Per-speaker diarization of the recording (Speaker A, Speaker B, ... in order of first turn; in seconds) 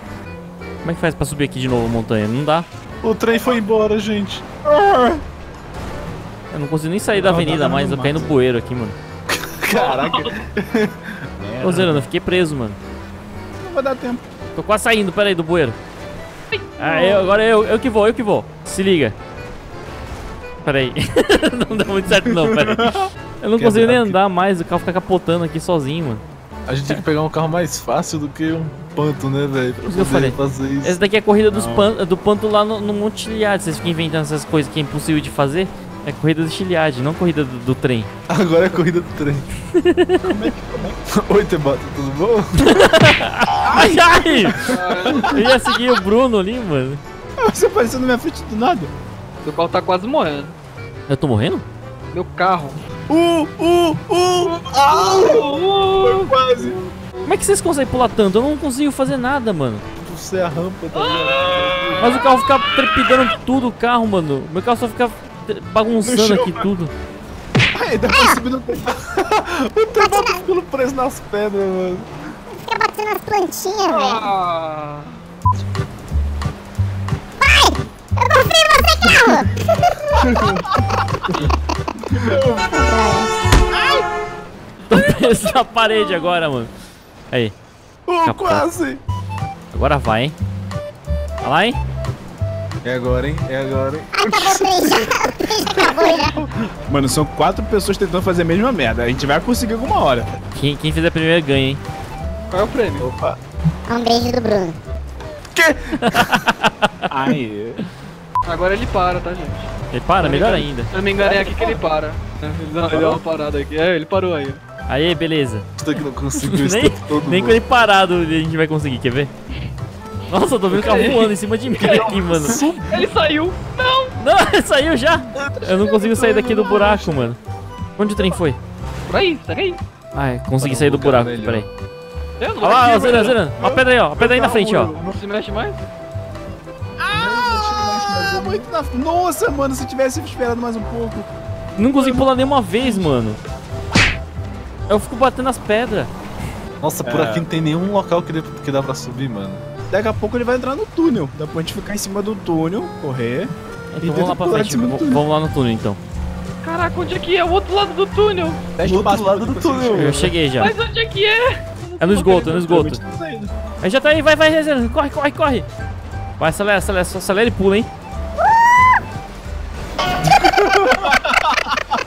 Speaker A: 0.8-2.7, 6.5-9.0, 11.6-12.8, 14.5-15.8, 16.8-19.1, 20.6-22.9, 23.4-26.2, 29.8-38.1, 39.8-40.2, 42.6-47.0, 51.1-51.6, 57.2-59.8, 62.0-66.9, 84.9-86.7, 87.3-87.5, 88.2-88.7, 89.7-90.3, 91.4-91.8, 100.5-101.8, 106.0-107.0, 109.9-110.9, 114.9-115.7, 116.4-119.3, 120.3-122.6, 124.2-127.4, 128.0-128.6, 130.1-131.7, 132.6-134.9, 141.8-143.4, 144.9-146.1, 153.9-156.0, 159.9-160.7, 162.0-163.0, 163.8-165.7, 166.4-167.9
Speaker B: 3.0-4.4, 9.3-11.2, 23.6-24.2, 26.6-31.0, 38.3-39.5, 41.1-42.6, 54.7-55.3, 60.0-62.3, 69.1-72.1, 80.2-80.6, 88.1-89.0, 92.8-96.6, 103.0-103.4, 105.5-106.4, 112.9-113.2, 115.8-117.6, 121.8-123.1, 125.3-127.2, 130.6-131.7, 134.2-135.2, 137.1-138.6, 146.8-149.6, 158.8-160.3
Speaker C: 4.6-5.2, 7.1-8.3, 11.4-12.0, 13.6-14.2, 22.3-23.1, 31.5-31.9, 40.2-41.0, 43.6-45.5, 47.4-48.9, 53.1-56.8, 66.0-66.7, 67.7-69.0, 82.2-82.7, 83.7-84.0, 96.9-100.3, 107.1-107.8, 137.0-141.3, 141.9-142.3, 142.8-143.0, 147.0-147.5, 149.9-153.5, 154.0-155.2, 158.8-160.3, 162.2-163.5, 170.8-171.8
Speaker D: 9.7-10.3, 16.5-17.3, 44.6-45.4, 49.4-50.5, 52.1-52.8, 54.9-56.3, 60.9-62.3, 73.9-75.2, 102.5-103.1, 108.4-114.6, 120.7-124.1, 129.1-129.8, 132.4-133.4, 135.0-135.8, 156.6-158.6, 160.6-162.4
Speaker E: 68.1-68.4, 70.1-70.4, 72.5-74.3, 77.4-79.5, 82.7-83.4, 94.1-96.4, 103.9-104.8